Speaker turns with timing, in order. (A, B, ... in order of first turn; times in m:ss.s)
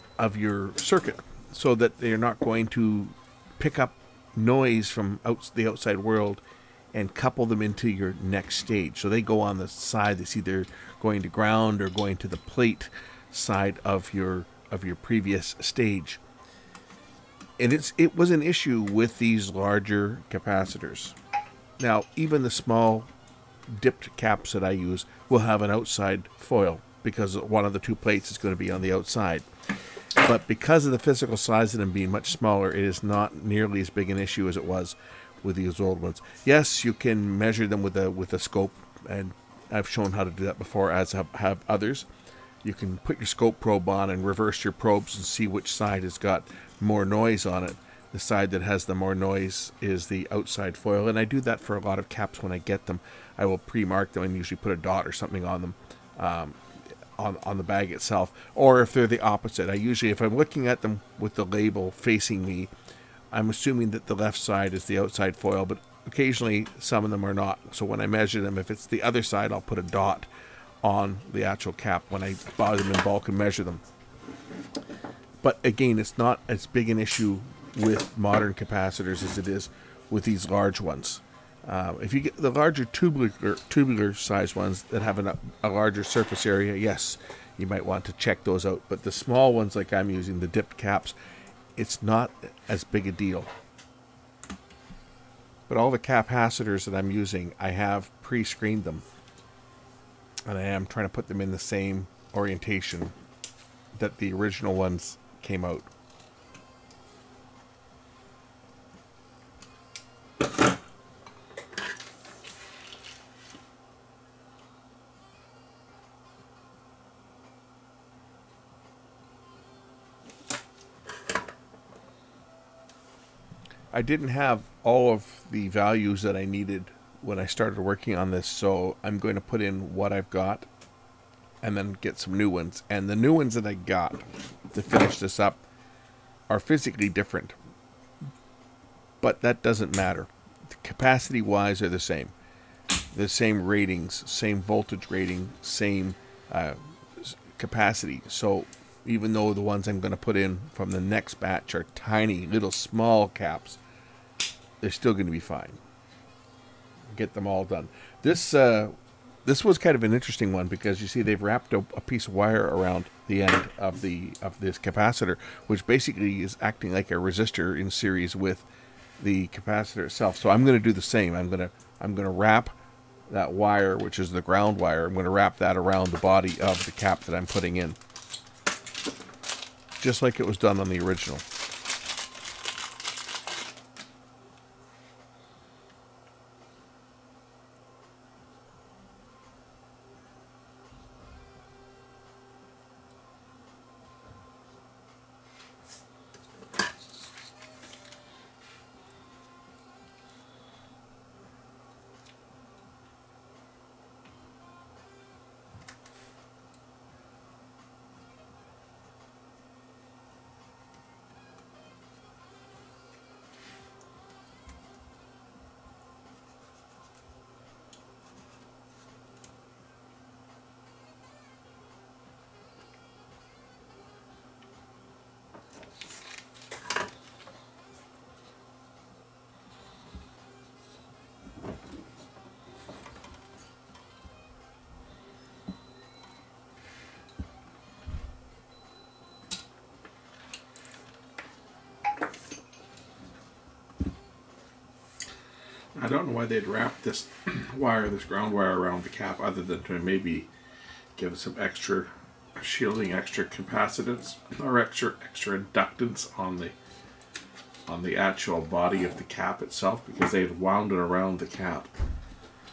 0:00.2-0:06.4 A
0:06.9-0:16.2 A
0:17.6-0:21.2 A
0:21.8-0:23.1 A
0:23.7-0:29.4 A
0:30.2-0:42.1 A
0:42.6-0:56.6 A
0:57.2-1:02.7 A
1:03.3-1:10.3 A
1:10.8-1:13.8 A
1:15.4-1:31.2 A
1:31.8-1:33.5 A
1:35.7-1:39.0 A
1:40.4-1:43.1 A
1:44.0-1:45.9 A
2:03.9-2:10.7 A
2:11.6-2:15.6 A
2:16.5-2:17.5 A
2:19.2-2:22.3 A
2:23.1-2:33.8 A
2:34.8-2:35.8 A
2:37.1-2:48.6 A
2:49.2-2:52.7 A
2:53.3-2:58.0 A
3:00.0-3:01.4 A
4:06.0-4:10.5 A
4:11.2-4:16.8 A
4:17.9-4:21.9 A